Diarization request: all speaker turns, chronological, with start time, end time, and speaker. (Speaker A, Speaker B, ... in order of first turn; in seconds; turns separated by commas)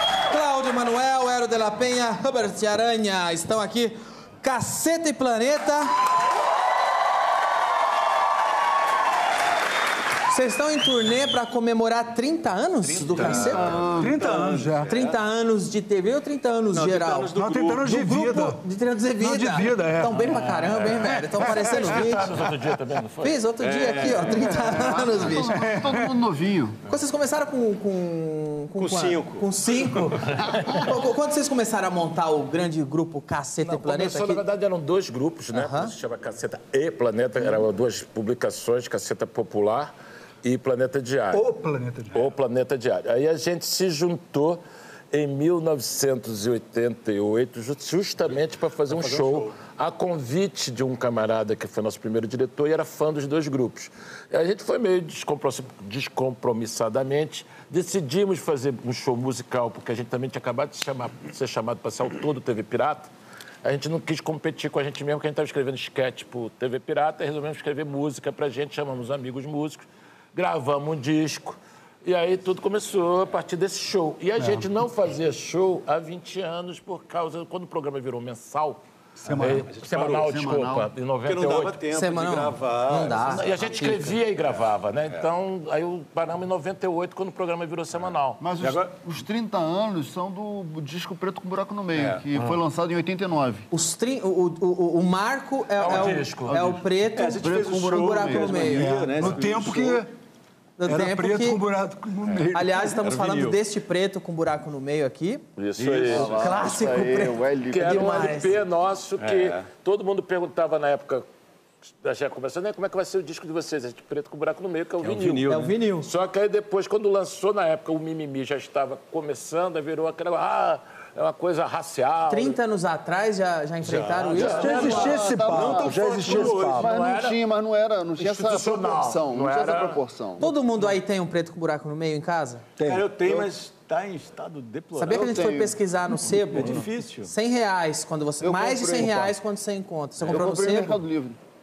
Speaker A: 0.3-5.9, Speaker A: 10.3-13.8, Speaker B: 13.0-13.5, Speaker C: 13.1-14.7, Speaker D: 13.2-14.9, Speaker A: 14.8-22.3, Speaker E: 16.7-17.9, Speaker D: 17.4-18.6, Speaker D: 19.2-20.6, Speaker B: 20.7-24.7, Speaker A: 23.2-25.7, Speaker C: 24.8-26.8, Speaker D: 25.5-26.1, Speaker A: 26.9-34.4, Speaker E: 28.9-29.8, Speaker B: 33.6-41.4, Speaker A: 35.5-35.9, Speaker D: 41.3-42.3, Speaker B: 42.1-44.6, Speaker B: 45.1-63.1, Speaker E: 48.9-49.5, Speaker B: 63.6-78.8, Speaker D: 74.4-74.7, Speaker D: 79.2-79.7, Speaker B: 79.3-81.8, Speaker E: 79.9-80.3, Speaker C: 80.3-80.9, Speaker E: 81.2-83.8, Speaker A: 81.9-84.2, Speaker B: 83.3-88.4, Speaker C: 88.4-93.7, Speaker E: 92.0-92.2, Speaker A: 93.7-99.3, Speaker B: 95.8-96.7, Speaker E: 97.2-100.0, Speaker C: 97.3-99.3, Speaker D: 98.6-100.1, Speaker A: 100.8-101.6, Speaker D: 100.9-103.0, Speaker E: 102.4-103.6, Speaker A: 102.5-105.4, Speaker B: 105.6-106.6, Speaker C: 105.8-108.3, Speaker E: 105.9-106.5, Speaker A: 106.3-108.6, Speaker B: 107.7-111.3, Speaker E: 109.2-109.6, Speaker B: 112.0-122.6, Speaker E: 115.0-115.8, Speaker A: 115.5-116.1, Speaker A: 122.3-125.2, Speaker B: 123.9-127.4, Speaker D: 124.4-127.0, Speaker C: 124.5-130.5, Speaker B: 128.2-130.0, Speaker A: 130.4-132.7, Speaker D: 132.8-133.1, Speaker E: 132.8-135.4, Speaker C: 133.2-133.5, Speaker A: 135.0-141.0, Speaker C: 135.1-135.8, Speaker E: 136.4-137.3, Speaker C: 138.4-139.3, Speaker C: 140.3-141.4